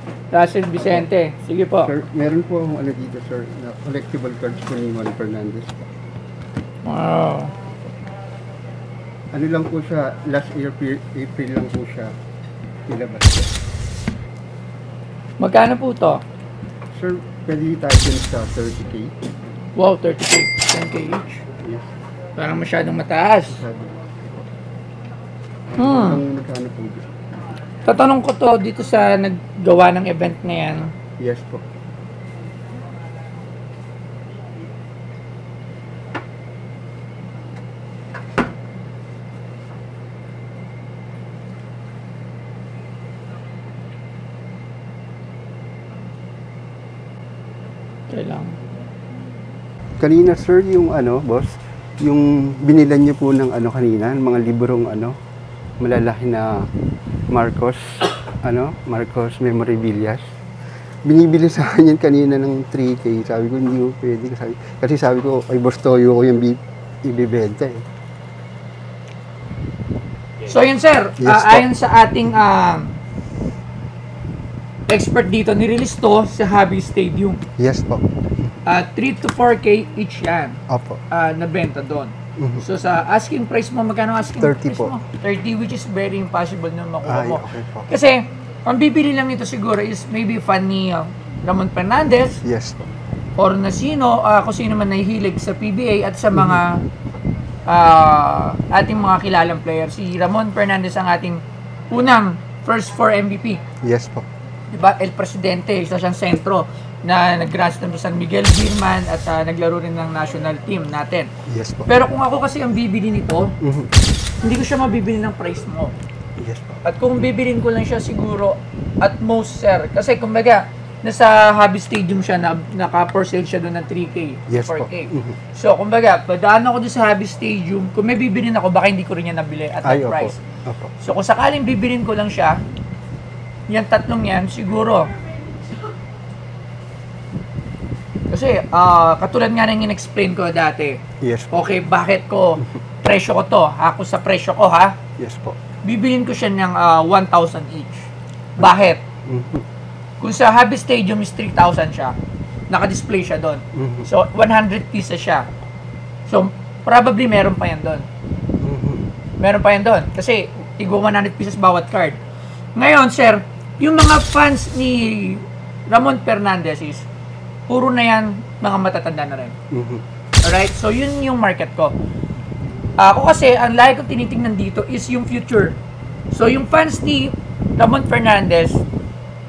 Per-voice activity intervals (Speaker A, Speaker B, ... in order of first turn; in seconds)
Speaker A: 0.3-1.9, 6.8-7.5, 15.4-16.2, 19.8-21.4, 22.4-23.6, 25.8-26.2, 27.8-30.9, 48.1-48.6, 70.5-73.0, 74.9-77.4, 78.6-92.4, 93.4-96.8, 97.7-103.6, 104.7-111.3, 111.9-113.5, 114.4-115.9, 116.8-130.4, 131.0-132.6, 133.7-135.1, 138.3-141.0, 141.5-144.9, 145.8-149.0, 150.2-152.1, 152.7-155.5, 156.3-158.0, 159.4-162.2, 162.7-167.1, 167.7-169.6, 170.4-171.9, 173.0-175.8, 176.3-178.8
Speaker B: 0.8-1.1, 1.8-5.9, 9.3-12.1, 12.9-13.5, 16.9-19.1, 21.6-21.9, 23.5-24.4, 25.7-27.1, 31.2-31.6, 50.0-55.2, 55.8-56.7, 57.3-67.8, 71.2-71.7, 77.6-78.5, 80.7-81.0, 82.4-82.6, 84.4-85.0, 87.0-87.9, 92.4-92.9, 96.3-96.6, 103.8-104.2, 111.5-111.9, 113.6-113.9, 116.4-116.8, 124.5-125.4, 129.8-130.9, 141.2-141.7, 145.2-145.6, 148.6-149.6, 153.7-154.1, 158.6-159.1, 169.7-170.0